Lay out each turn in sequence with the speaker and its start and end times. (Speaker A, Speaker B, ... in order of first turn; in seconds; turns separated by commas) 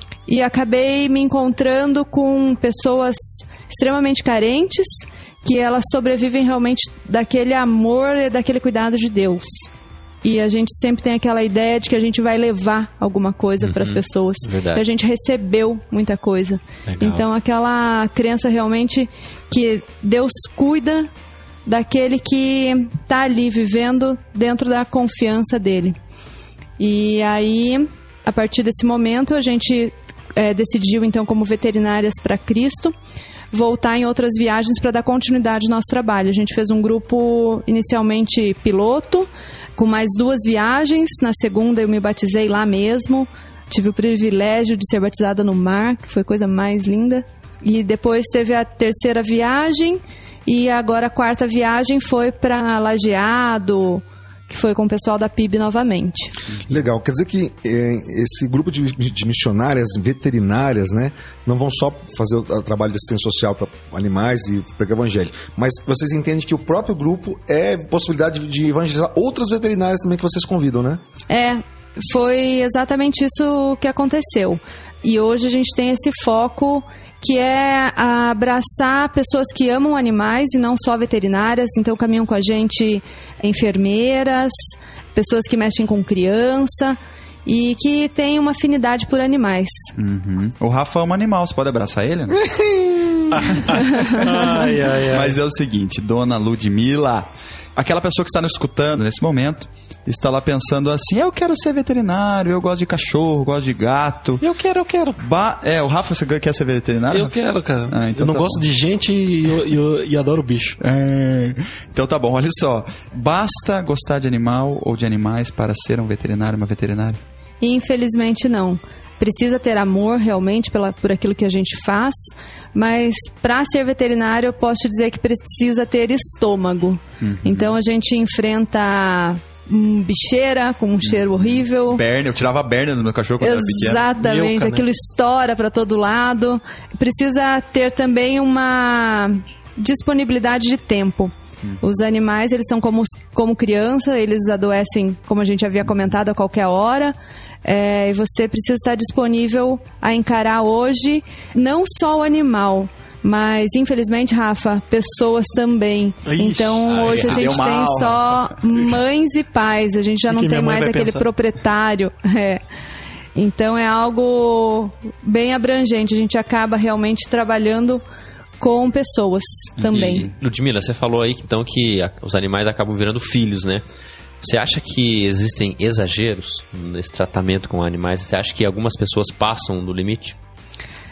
Speaker A: 0.3-9.7, Speaker A: 10.2-21.1, Speaker B: 13.6-14.8, Speaker B: 16.9-17.3, Speaker A: 21.6-26.0, Speaker A: 26.8-33.0, Speaker A: 33.5-56.4, Speaker C: 56.7-71.0, Speaker A: 71.3-89.9, Speaker D: 90.0-92.4, Speaker C: 92.4-93.2, Speaker E: 93.3-95.3, Speaker D: 93.7-94.5, Speaker D: 95.1-104.4, Speaker E: 104.4-105.2, Speaker D: 105.2-108.6, Speaker E: 107.1-110.8, Speaker D: 110.8-117.2, Speaker A: 117.6-132.0, Speaker D: 127.2-127.7, Speaker D: 131.1-134.1, Speaker A: 133.4-162.6, Speaker E: 134.2-134.9, Speaker E: 156.3-157.2, Speaker B: 156.9-157.4, Speaker D: 157.1-158.5, Speaker E: 160.3-161.3, Speaker A: 163.3-168.0, Speaker A: 168.6-170.3, Speaker D: 169.9-170.3, Speaker B: 169.9-173.8, Speaker B: 174.4-180.4